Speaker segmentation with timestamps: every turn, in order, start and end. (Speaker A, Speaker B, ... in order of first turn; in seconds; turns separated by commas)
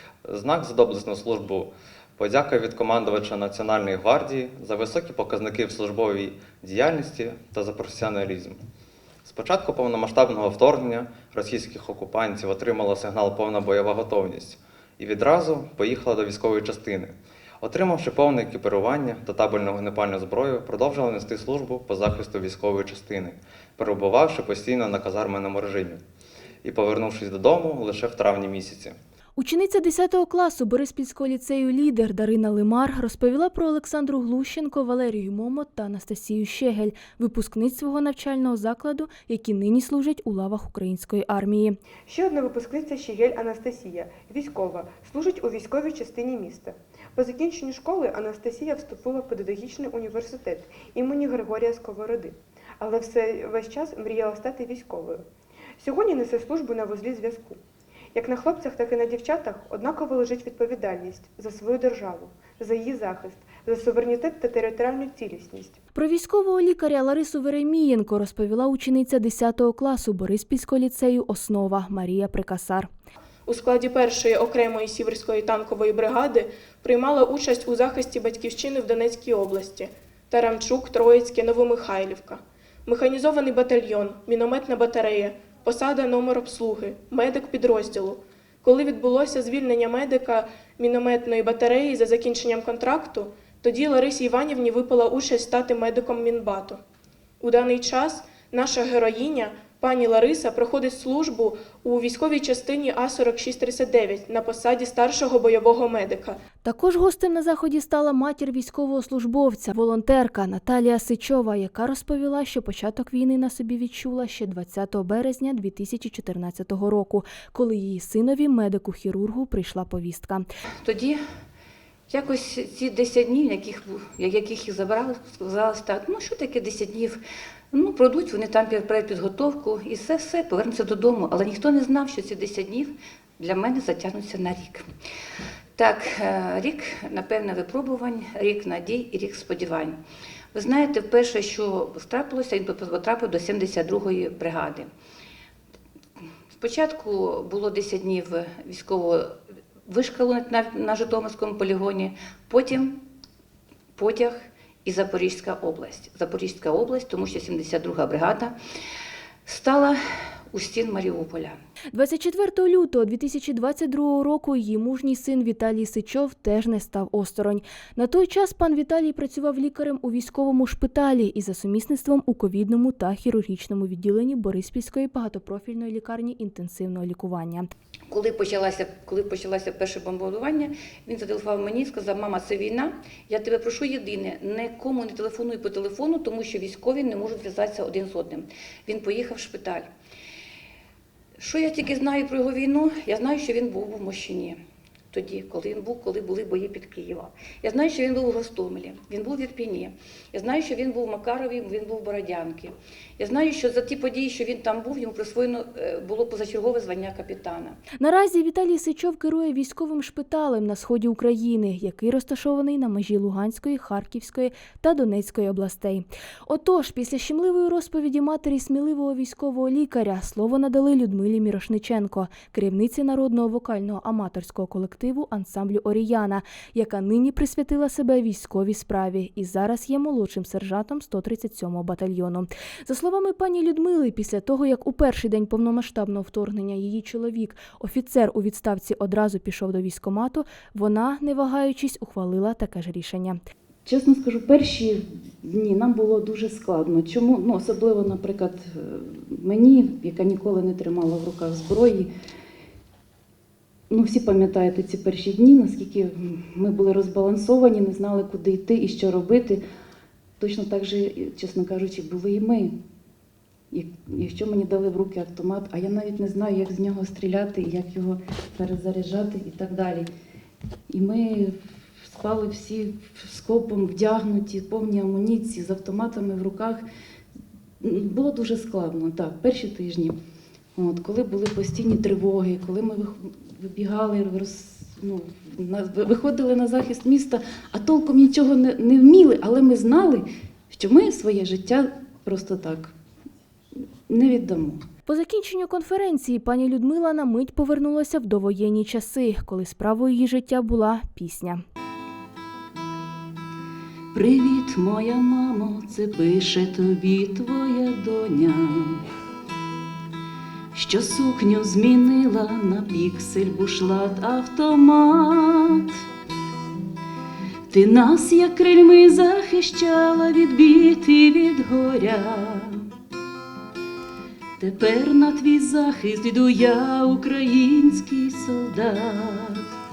Speaker A: 0.2-8.6, Speaker A: 9.2-26.0, Speaker A: 26.6-29.0, Speaker B: 29.4-41.8, Speaker C: 42.1-55.2, Speaker C: 55.8-57.6, Speaker C: 58.1-65.8, Speaker B: 66.0-72.9, Speaker D: 73.5-96.8, Speaker D: 97.4-106.4, Speaker B: 106.6-120.5, Speaker E: 120.8-121.2, Speaker E: 122.1-127.2, Speaker E: 127.7-134.9, Speaker E: 135.8-140.0, Speaker E: 140.5-144.9, Speaker E: 146.6-149.3, Speaker E: 149.9-153.0, Speaker E: 154.0-158.6, Speaker E: 159.5-160.0, Speaker E: 160.5-161.6, Speaker B: 161.9-177.7, Speaker E: 178.1-189.9, Speaker E: 191.4-194.6, Speaker E: 195.1-207.8, Speaker B: 208.0-243.4, Speaker F: 243.9-252.1, Speaker F: 253.9-259.6, Speaker F: 260.4-262.7, Speaker F: 263.7-270.1, Speaker F: 270.9-276.8, Speaker F: 277.8-280.2, Speaker F: 280.8-292.9, Speaker F: 294.1-294.8, Speaker B: 295.1-301.6, Speaker F: 304.1-309.1, Speaker F: 310.7-316.0, Speaker F: 317.7-322.9, Speaker F: 324.6-329.7